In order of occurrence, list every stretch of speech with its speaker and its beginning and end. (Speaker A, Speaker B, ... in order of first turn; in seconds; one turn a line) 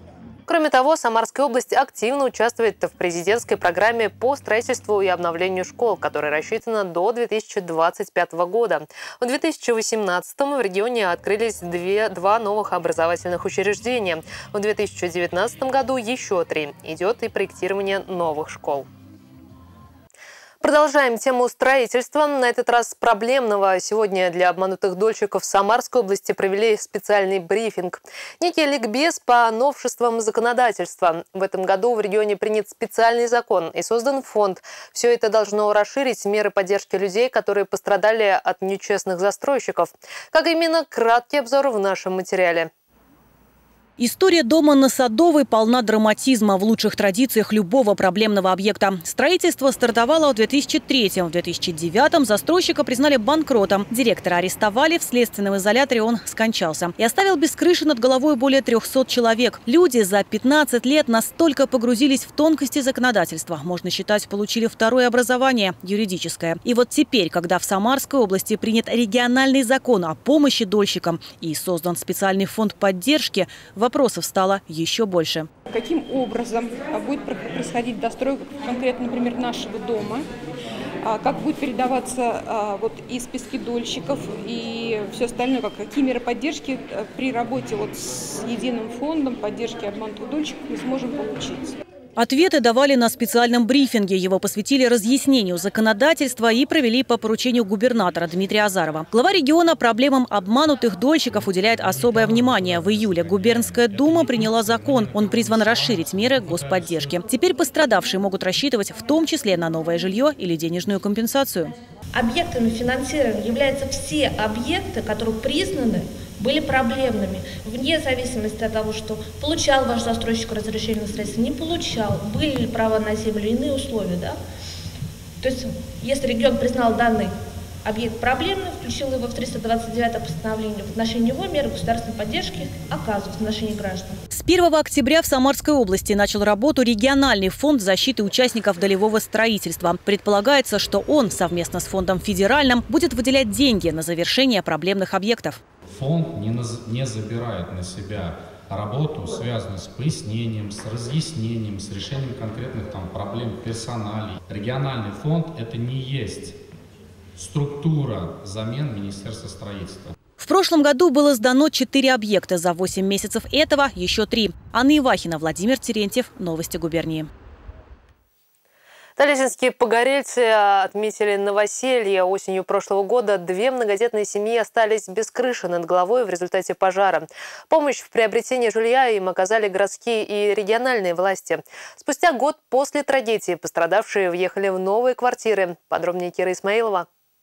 Speaker A: 0.5-18.9
Speaker A: 20.6-42.7
Speaker B: 44.0-75.5
Speaker C: 75.7-80.3
Speaker C: 81.0-91.8
Speaker B: 92.2-111.8
Speaker D: 101.8-107.2
Speaker E: 112.1-124.4
Speaker E: 125.4-134.2
Speaker B: 134.3-145.6
Speaker D: 145.9-156.6
Speaker D: 157.4-160.2
Speaker B: 160.4-167.3
Speaker A: 169.2-187.1